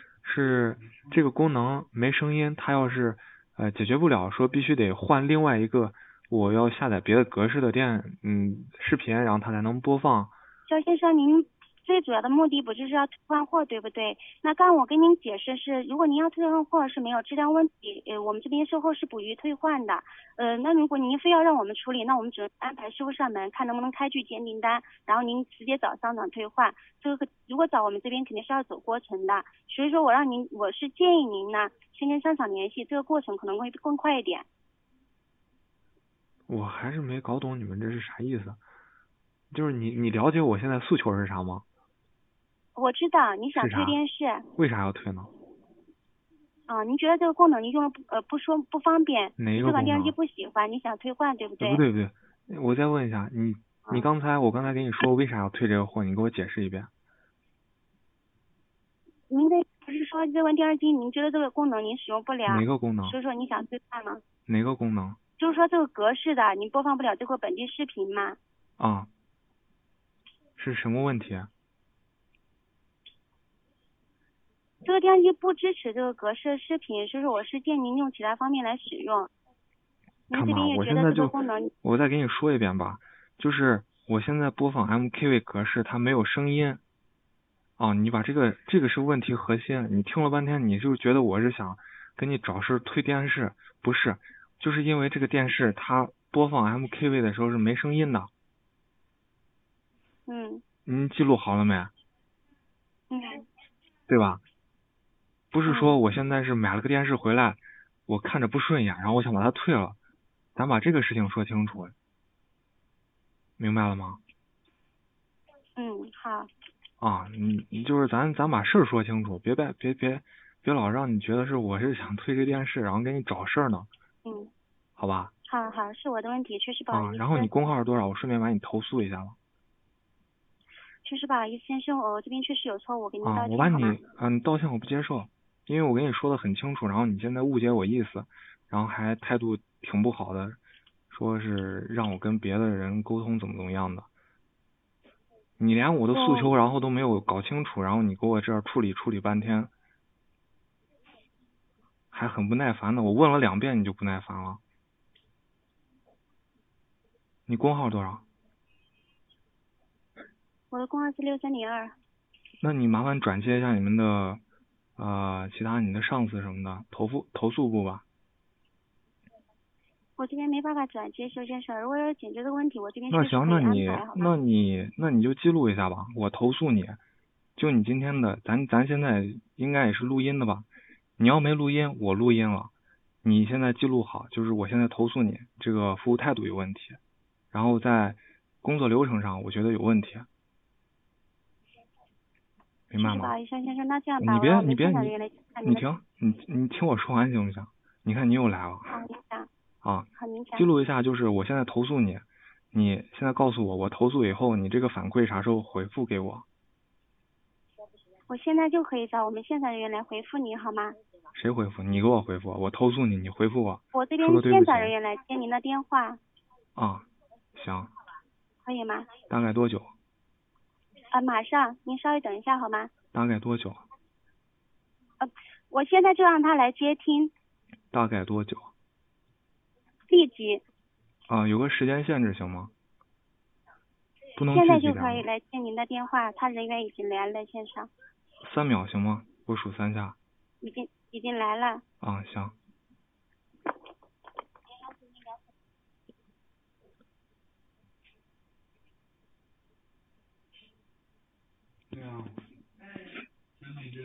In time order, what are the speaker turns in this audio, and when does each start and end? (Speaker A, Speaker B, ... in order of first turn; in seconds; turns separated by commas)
Speaker A: 0.2-10.4, Speaker B: 10.7-34.5, Speaker A: 36.5-38.6, Speaker A: 39.5-41.6, Speaker B: 42.8-44.5, Speaker A: 43.5-44.0, Speaker A: 44.5-45.3, Speaker B: 46.7-51.8, Speaker A: 49.4-50.1, Speaker A: 51.6-56.9, Speaker B: 59.3-64.2, Speaker A: 62.5-63.2, Speaker A: 64.5-65.2, Speaker B: 65.4-68.4, Speaker A: 68.8-69.1, Speaker A: 70.6-71.5, Speaker B: 74.8-79.3, Speaker B: 80.3-81.7, Speaker A: 80.3-86.8, Speaker A: 87.8-98.3, Speaker B: 100.3-100.6, Speaker A: 100.9-101.9, Speaker B: 103.1-103.4, Speaker A: 104.1-104.4, Speaker A: 105.5-110.0, Speaker B: 105.7-105.9, Speaker A: 110.5-111.9, Speaker A: 113.6-114.2, Speaker B: 115.8-116.5, Speaker A: 117.0-123.9, Speaker B: 124.2-124.5, Speaker A: 125.0-125.3, Speaker B: 125.5-127.5, Speaker A: 126.9-129.4, Speaker B: 131.1-134.0, Speaker A: 133.2-140.6, Speaker A: 141.1-144.1, Speaker A: 145.6-149.7, Speaker B: 146.1-146.5, Speaker A: 152.1-154.6, Speaker A: 157.5-158.2, Speaker B: 160.7-161.9, Speaker A: 162.6-164.4, Speaker A: 165.0-168.0, Speaker B: 170.2-174.3, Speaker A: 173.1-177.0, Speaker A: 177.6-182.7, Speaker A: 183.2-187.0, Speaker A: 187.5-190.3, Speaker A: 192.9-193.3, Speaker B: 193.0-195.9, Speaker A: 194.2-195.1, Speaker A: 195.7-199.0, Speaker B: 198.9-199.5, Speaker A: 199.8-206.4, Speaker B: 200.2-200.7, Speaker B: 208.3-211.0, Speaker A: 211.3-214.9, Speaker B: 213.9-216.2, Speaker A: 216.8-217.9, Speaker B: 218.7-219.1, Speaker A: 219.3-219.9, Speaker B: 221.1-222.9, Speaker A: 223.1-223.8, Speaker B: 225.2-227.3, Speaker A: 227.9-228.7, Speaker B: 230.1-230.6, Speaker A: 231.3-232.7, Speaker A: 234.4-235.3, Speaker B: 234.5-237.9, Speaker A: 238.4-240.2, Speaker B: 240.6-241.8, Speaker A: 242.0-242.5, Speaker A: 251.9-252.3